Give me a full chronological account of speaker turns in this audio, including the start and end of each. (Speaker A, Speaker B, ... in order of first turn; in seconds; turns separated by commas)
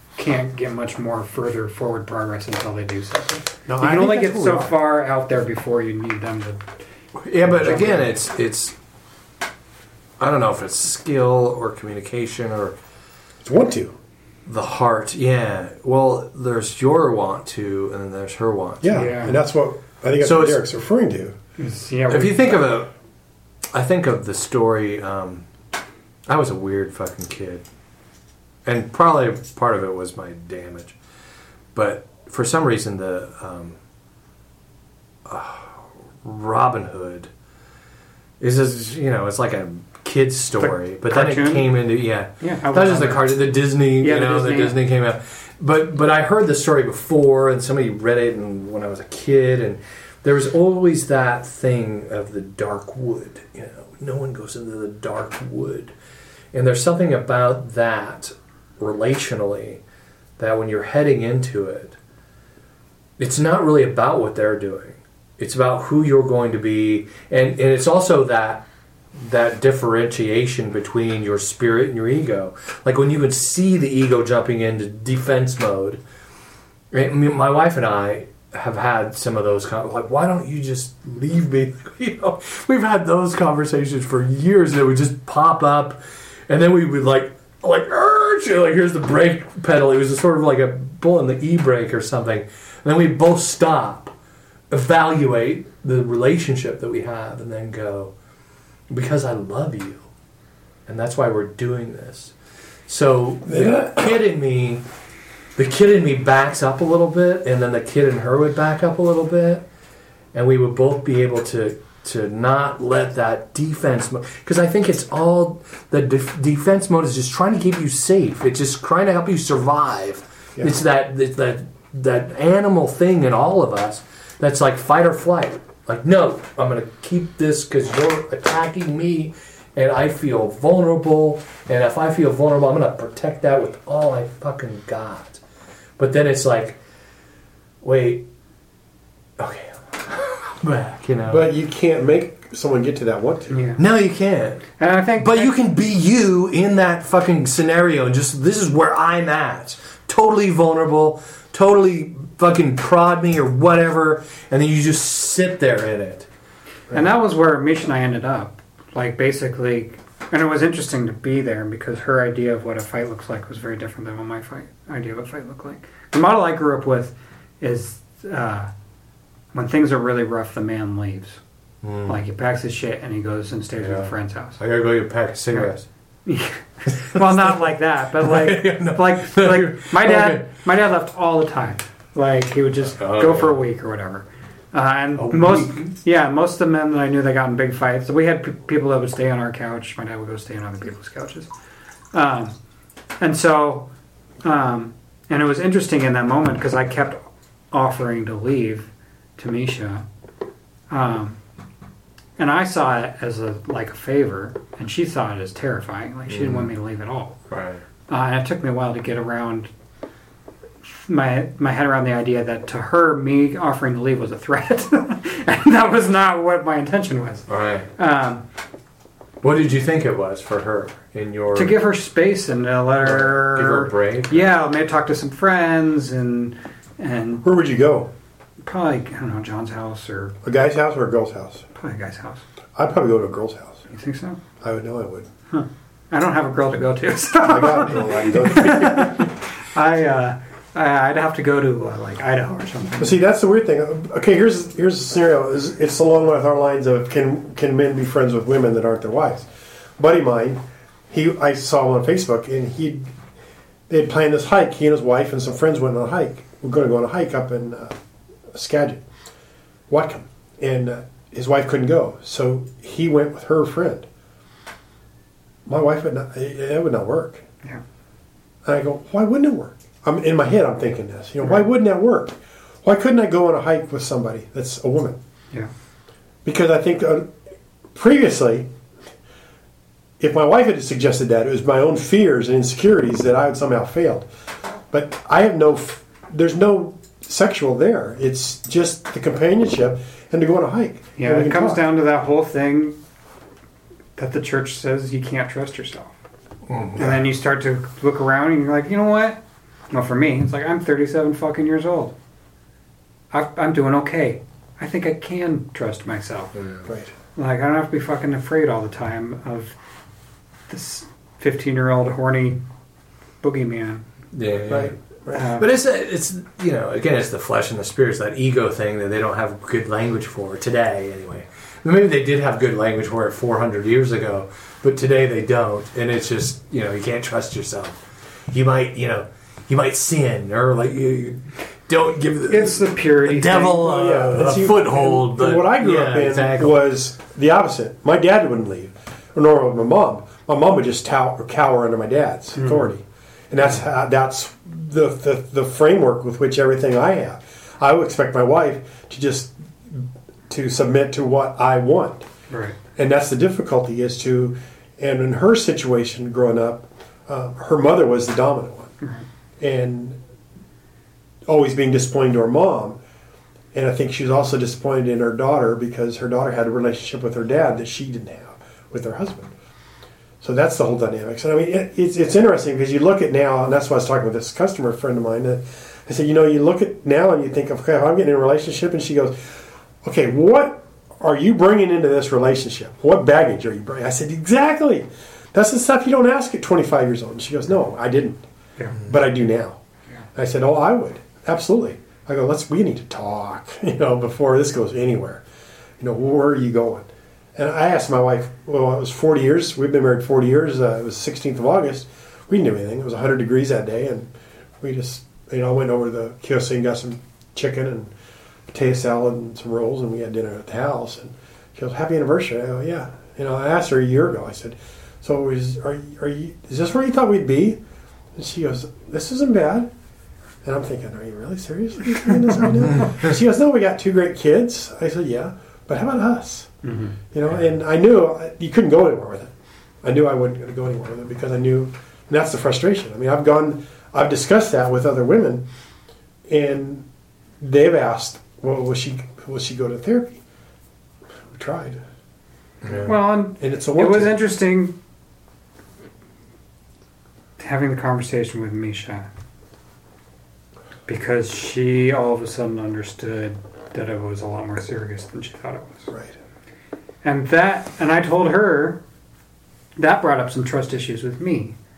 Speaker A: 0.1-6.7, Speaker B: 3.7-4.7, Speaker C: 7.2-8.7, Speaker A: 7.5-8.0, Speaker C: 10.2-12.8, Speaker B: 13.4-13.9, Speaker C: 14.4-19.1, Speaker B: 18.8-21.4, Speaker A: 18.9-19.4, Speaker C: 20.2-20.6, Speaker A: 21.6-22.6, Speaker C: 22.1-22.9, Speaker C: 23.7-25.5, Speaker C: 26.3-27.6, Speaker C: 28.6-31.0, Speaker C: 31.7-33.8, Speaker C: 35.2-37.3, Speaker C: 38.4-55.9, Speaker A: 40.6-44.8, Speaker C: 56.5-59.8, Speaker C: 60.4-62.0, Speaker C: 63.2-76.0, Speaker C: 76.9-94.1, Speaker C: 94.7-98.1, Speaker C: 98.9-100.0, Speaker C: 100.9-102.3, Speaker C: 102.9-104.8, Speaker B: 103.5-104.2, Speaker C: 105.5-109.7, Speaker C: 110.3-135.4, Speaker C: 136.0-136.8, Speaker C: 137.8-138.2, Speaker C: 139.4-141.5, Speaker B: 141.3-143.5, Speaker A: 143.5-143.8, Speaker C: 143.8-156.3, Speaker A: 144.8-145.6, Speaker A: 156.9-168.7, Speaker A: 169.5-171.4, Speaker C: 171.8-172.2, Speaker A: 172.1-174.6, Speaker C: 173.8-175.8, Speaker A: 176.2-191.5, Speaker C: 177.1-177.5, Speaker C: 178.2-180.4, Speaker C: 182.9-183.6, Speaker C: 185.2-185.9, Speaker A: 192.1-192.6, Speaker A: 193.2-193.9, Speaker A: 194.4-200.0, Speaker A: 200.9-201.4, Speaker A: 202.4-207.4, Speaker C: 206.3-206.7, Speaker C: 207.5-207.8, Speaker A: 208.1-209.7, Speaker A: 210.8-218.4, Speaker C: 217.5-217.9, Speaker C: 219.4-221.8, Speaker A: 221.5-227.4, Speaker C: 223.0-224.4, Speaker B: 227.4-228.1, Speaker A: 228.6-230.3, Speaker B: 230.4-231.7, Speaker A: 231.8-232.4, Speaker B: 232.7-233.8, Speaker A: 233.9-234.4, Speaker B: 234.6-235.3, Speaker A: 235.5-243.2, Speaker B: 237.4-239.2, Speaker B: 243.0-253.1, Speaker B: 253.9-258.0, Speaker B: 258.5-259.0, Speaker B: 259.9-264.1, Speaker B: 265.6-267.4, Speaker B: 268.6-275.2, Speaker B: 276.4-277.3, Speaker B: 277.9-278.7, Speaker B: 280.2-284.3, Speaker B: 284.9-291.8, Speaker A: 291.2-293.0, Speaker A: 294.2-296.2, Speaker C: 296.7-297.1, Speaker A: 297.0-302.1, Speaker A: 303.3-306.5, Speaker C: 306.5-306.8, Speaker B: 306.9-307.1, Speaker A: 307.4-309.8, Speaker A: 310.7-312.6, Speaker A: 313.4-314.1, Speaker C: 314.3-315.0, Speaker B: 314.7-315.4, Speaker A: 315.3-315.7, Speaker C: 315.6-336.8, Speaker A: 332.5-333.8, Speaker B: 333.8-352.2, Speaker A: 342.6-342.9, Speaker A: 352.5-352.8, Speaker B: 352.9-358.9, Speaker B: 359.6-360.2, Speaker B: 361.4-363.0, Speaker B: 363.7-369.5, Speaker B: 370.4-388.4, Speaker B: 389.0-389.8, Speaker B: 390.3-395.4, Speaker B: 396.0-408.1, Speaker B: 408.7-417.8, Speaker B: 418.4-419.9, Speaker B: 420.6-426.7, Speaker A: 426.8-427.2, Speaker B: 427.3-429.5, Speaker B: 430.0-435.7, Speaker B: 436.5-437.1, Speaker B: 437.6-440.4, Speaker B: 441.5-442.0, Speaker C: 442.8-443.1, Speaker A: 443.1-445.0, Speaker B: 443.6-444.4, Speaker A: 447.6-449.3, Speaker A: 451.1-456.1, Speaker B: 456.1-456.4, Speaker A: 457.2-459.0, Speaker A: 460.0-461.8